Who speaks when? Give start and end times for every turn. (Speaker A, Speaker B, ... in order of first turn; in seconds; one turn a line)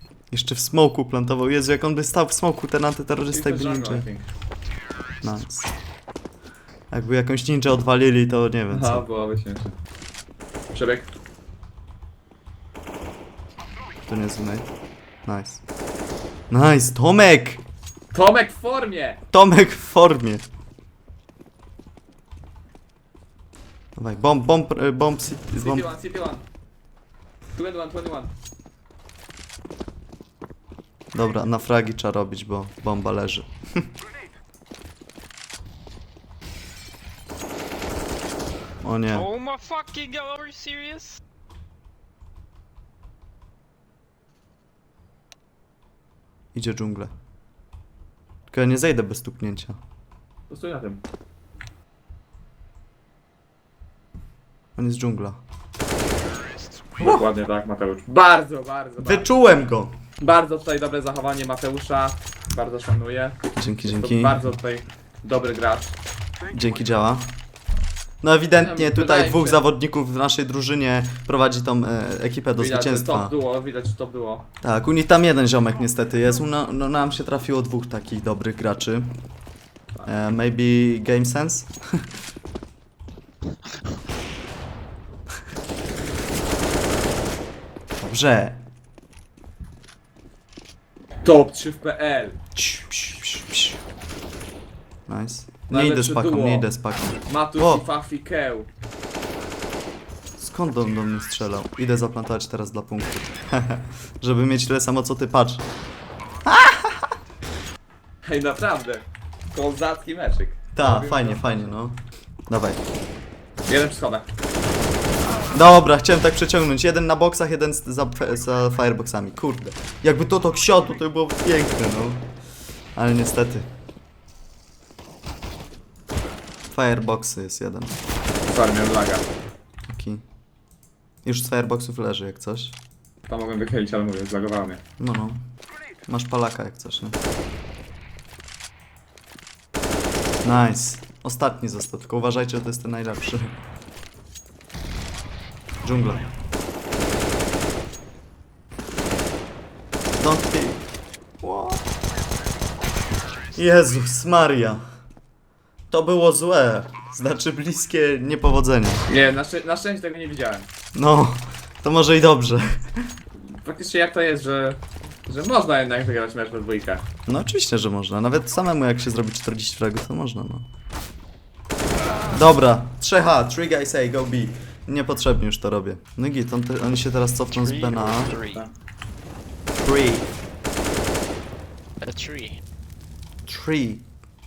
Speaker A: 0.3-4.1
Speaker B: 3.3-4.2
Speaker A: 5.2-5.7
Speaker A: 6.9-9.0
Speaker B: 8.7-9.7
Speaker B: 10.7-11.1
Speaker A: 14.1-14.7
Speaker A: 15.3-15.6
Speaker A: 16.5-17.6
Speaker B: 18.1-19.2
Speaker A: 19.3-20.4
Speaker A: 24.0-25.9
Speaker B: 25.6-26.4
Speaker B: 27.6-28.3
Speaker A: 31.1-33.9
Speaker A: 38.8-39.3
Speaker C: 39.1-41.2
Speaker A: 46.5-47.1
Speaker A: 48.5-49.8
Speaker B: 50.5-51.0
Speaker A: 54.8-55.4
Speaker B: 57.0-59.3
Speaker A: 59.0-60.0
Speaker B: 60.2-66.0
Speaker A: 63.6-64.5
Speaker A: 66.5-67.3
Speaker A: 68.2-73.3
Speaker B: 68.6-69.6
Speaker B: 72.6-74.5
Speaker A: 74.6-79.2
Speaker A: 80.1-82.0
Speaker A: 88.0-88.6
Speaker B: 91.2-92.4
Speaker A: 92.6-93.8
Speaker A: 95.1-97.8
Speaker B: 95.7-96.7
Speaker B: 97.3-98.7
Speaker A: 100.4-105.7
Speaker A: 106.5-107.1
Speaker B: 108.2-111.7
Speaker A: 110.7-112.0
Speaker A: 112.5-112.8
Speaker B: 113.7-114.3
Speaker A: 115.5-122.3
Speaker A: 123.0-123.7
Speaker A: 126.7-128.0
Speaker B: 128.4-129.3
Speaker A: 129.9-130.2
Speaker A: 131.2-132.8
Speaker B: 133.3-134.8
Speaker A: 135.0-135.4
Speaker A: 136.1-137.2
Speaker A: 140.4-143.6
Speaker A: 145.8-146.3
Speaker A: 150.2-150.8
Speaker A: 151.4-151.8
Speaker A: 153.6-154.8
Speaker A: 155.9-159.1
Speaker B: 159.1-160.7
Speaker A: 160.9-163.0
Speaker B: 163.5-167.0
Speaker A: 167.3-170.7
Speaker A: 172.3-178.4
Speaker C: 177.5-178.7
Speaker A: 179.7-180.3
Speaker C: 182.0-182.6
Speaker A: 183.5-184.1